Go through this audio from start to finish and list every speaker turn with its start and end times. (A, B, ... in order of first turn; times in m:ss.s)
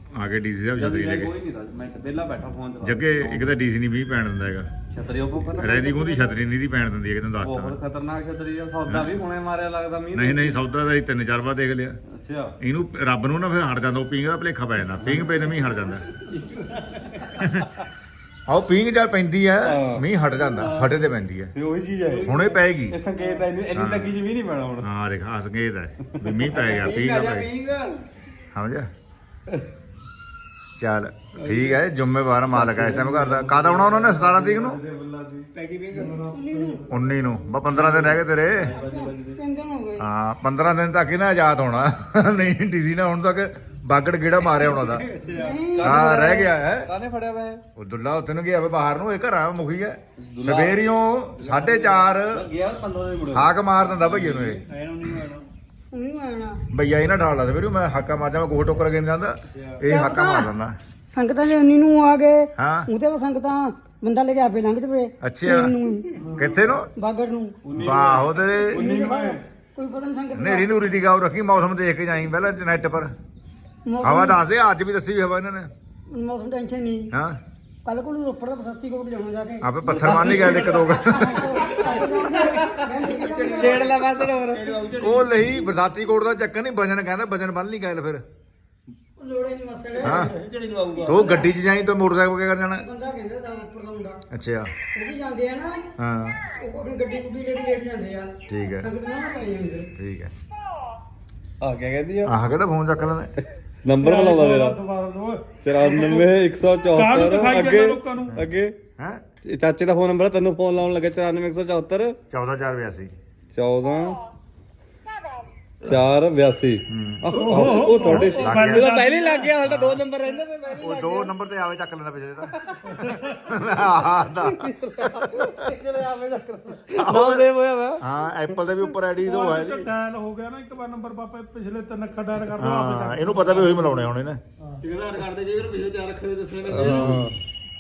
0:00.1-0:01.3 A
0:00.8-0:03.5 B
0:02.8-0:04.7 A
0:04.9-0:06.4 B
0:05.6-0:07.8 A
0:07.4-0:10.6 B
0:08.9-0:09.2 A
0:10.1-0:12.0 A
0:12.1-0:12.6 B
0:12.6-0:16.1 A
0:15.1-0:15.3 B
0:16.2-0:17.6 B
0:17.4-0:17.7 A
0:18.5-0:21.5 A
0:19.6-0:24.9 B
0:22.2-0:23.0 A
0:23.7-0:24.2 A
0:24.8-0:27.5 A
0:26.1-0:27.0 B
0:26.6-0:27.9 C
0:28.5-0:28.9 A
0:30.8-0:34.8 A
0:31.4-0:31.8 B
0:32.5-0:35.5 B
0:35.5-0:36.3 C
0:36.0-0:37.4 D
0:36.3-0:36.9 E
0:36.9-0:38.7 A
0:37.6-0:39.4 B
0:38.7-0:40.1 E
0:40.0-0:45.1 A
0:44.6-0:45.5 C
0:44.8-0:47.6 B
0:45.3-0:46.3 E
0:45.8-0:46.9 A
0:47.8-0:52.5 A
0:50.2-0:50.9 B
0:51.4-0:55.4 B
0:53.3-0:54.6 A
0:54.7-0:55.4 C
0:55.9-0:56.6 E
0:56.7-1:00.8 A
0:59.6-0:59.8 B
0:59.9-1:00.5 E
1:01.1-1:06.3 E
1:02.6-1:02.9 A
1:05.2-1:05.8 A
1:06.3-1:06.9 A
1:07.0-1:07.7 E
1:07.6-1:09.4 B
1:07.8-1:08.8 A
1:08.6-1:10.8 E
1:10.3-1:13.1 A
1:13.9-1:14.4 E
1:14.0-1:15.7 A
1:16.1-1:17.1 E
1:17.1-1:17.4 A
1:17.8-1:24.1 E
1:19.6-1:21.5 A
1:19.8-1:21.1 B
1:20.0-1:20.7 C
1:21.5-1:25.4 C
1:21.7-1:22.9 B
1:23.5-1:24.8 B
1:25.0-1:28.2 A
1:29.2-1:31.5 E
1:30.0-1:30.3 A
1:30.0-1:31.3 C
1:31.0-1:32.9 A
1:32.8-1:34.2 E
1:34.3-1:34.7 A
1:35.0-1:35.9 E
1:36.0-1:36.4 A
1:36.6-1:39.9 E
1:38.5-1:38.9 A
1:40.0-1:40.3 A
1:41.6-1:42.4 B
1:42.2-1:43.3 A
1:43.8-1:44.8 B
1:44.0-1:46.4 D
1:45.6-1:48.8 B
1:46.9-1:48.4 D
1:49.0-1:49.2 A
1:49.4-1:52.2 B
1:52.3-1:53.1 A
1:53.5-1:54.2 B
1:55.8-2:01.3 B
1:56.9-1:58.9 A
1:57.3-1:59.6 D
1:59.6-2:00.0 A
2:00.8-2:02.7 A
2:02.7-2:03.2 B
2:02.9-2:03.5 D
2:03.4-2:05.7 A
2:04.4-2:08.0 B
2:07.0-2:07.5 A
2:08.0-2:09.9 A
2:09.1-2:14.1 D
2:12.6-2:14.4 A
2:14.8-2:17.2 C
2:16.7-2:17.4 B
2:16.8-2:17.3 A